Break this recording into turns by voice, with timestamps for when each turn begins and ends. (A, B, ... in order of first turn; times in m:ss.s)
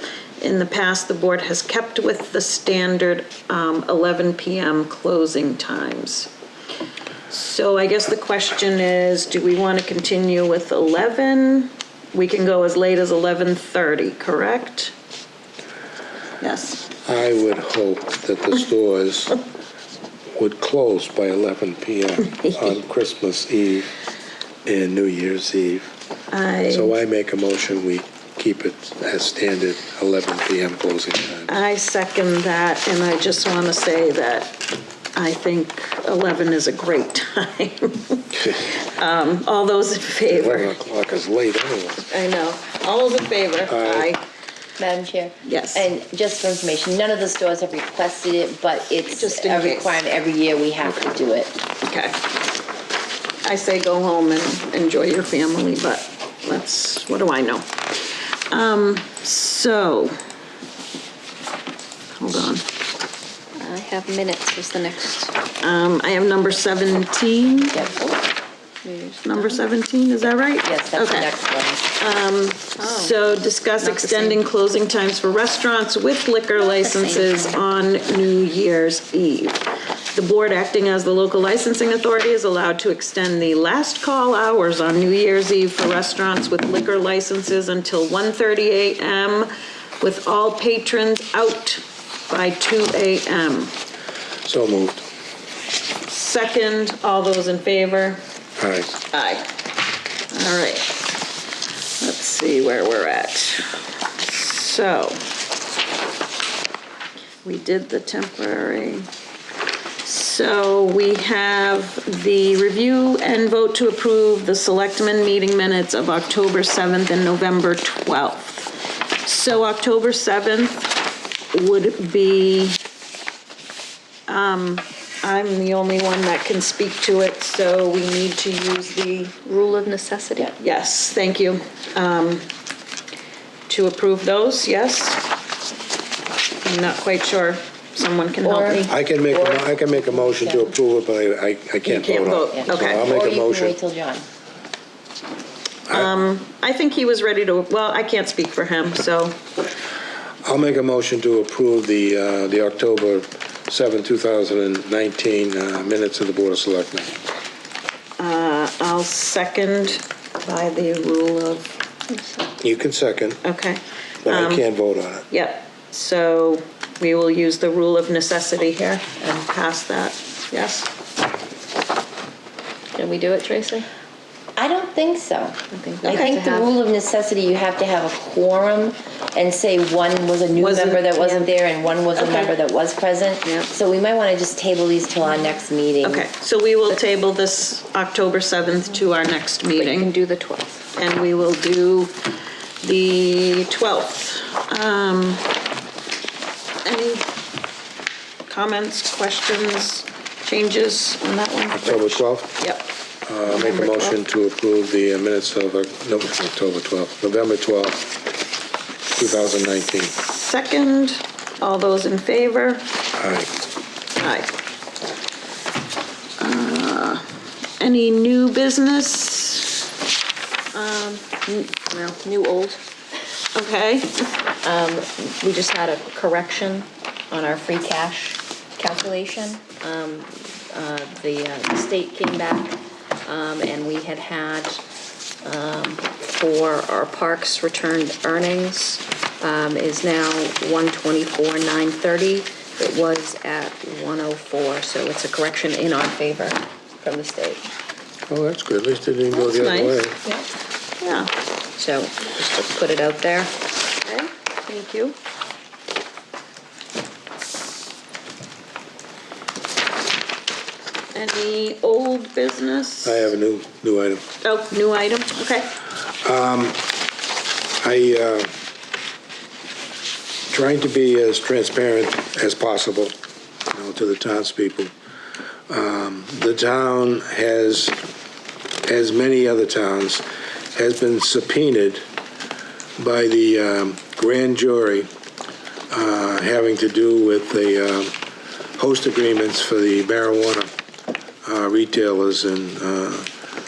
0:00.4-0:06.3 A
0:07.3-0:14.9 A
0:16.4-0:16.8 A
0:17.0-0:19.4 B
0:20.4-0:23.9 B
0:24.6-0:25.9 B
0:26.3-0:27.0 A
0:26.7-0:31.5 B
0:31.5-0:34.6 A
0:35.1-0:40.8 A
0:40.3-0:42.0 B
0:42.0-0:44.2 A
0:43.7-0:44.1 B
0:44.8-0:51.6 C
0:45.4-0:45.9 A
0:49.1-0:50.0 A
0:51.8-0:52.2 A
0:53.4-1:00.2 A
1:02.1-1:02.6 A
1:03.6-1:05.3 D
1:05.6-1:07.9 A
1:07.7-1:08.1 C
1:08.8-1:09.6 D
1:09.2-1:11.3 A
1:10.6-1:11.9 C
1:12.0-1:33.7 A
1:12.8-1:13.1 D
1:13.8-1:14.4 D
1:16.9-1:17.4 D
1:34.4-1:35.0 B
1:36.1-1:38.2 A
1:38.6-1:38.9 B
1:39.1-1:39.5 A
1:40.3-1:40.9 A
1:42.0-1:45.2 A
1:47.4-1:49.1 A
1:50.0-2:01.0 A
2:01.5-2:02.8 A
2:04.3-2:09.4 A
2:09.4-2:10.5 D
2:10.6-2:12.4 A
2:13.7-2:15.2 A
2:16.6-2:18.9 A
2:18.4-2:20.7 C
2:18.8-2:23.8 B
2:21.8-2:23.1 A
2:22.5-2:24.2 C
2:25.9-2:29.4 A
2:30.4-2:37.1 B
2:38.2-2:41.7 A
2:42.1-2:42.4 D
2:42.6-2:43.4 B
2:43.4-2:44.6 A
2:44.2-2:45.2 B
2:45.3-2:50.9 A
2:52.9-2:53.9 D
2:54.6-3:06.3 C
2:55.7-2:56.7 D
2:56.0-2:56.4 A
3:00.5-3:01.2 A
3:01.2-3:01.5 D
3:06.0-3:10.1 A
3:09.7-3:10.8 D
3:10.9-3:12.1 A
3:12.8-3:15.5 A
3:16.8-3:17.3 A
3:18.5-3:22.9 A
3:21.7-3:22.5 B
3:23.2-3:28.1 B
3:23.4-3:24.2 A
3:29.1-3:30.1 B
3:30.1-3:32.9 A
3:33.2-3:33.5 B
3:34.2-3:34.5 A
3:36.4-3:37.2 A
3:37.8-3:39.8 A
3:40.7-3:42.8 D
3:43.5-3:44.3 A
3:44.6-3:54.8 D
3:55.4-4:07.6 D
4:08.3-4:10.2 B
4:09.3-4:10.1 A
4:11.0-4:11.3 A
4:11.8-4:13.5 D
4:14.0-4:15.1 A
4:21.1-4:23.3 A
4:23.0-4:24.2 B
4:24.4-4:25.7 A
4:26.2-4:26.8 B
4:27.8-4:28.5 B
4:30.5-4:33.1 B
4:33.7-4:34.9 B
4:35.7-4:37.9 B
4:38.8-4:42.0 B
4:43.0-4:45.1 B
4:45.9-4:48.1 B
4:48.8-4:50.7 B
4:51.4-4:53.3 B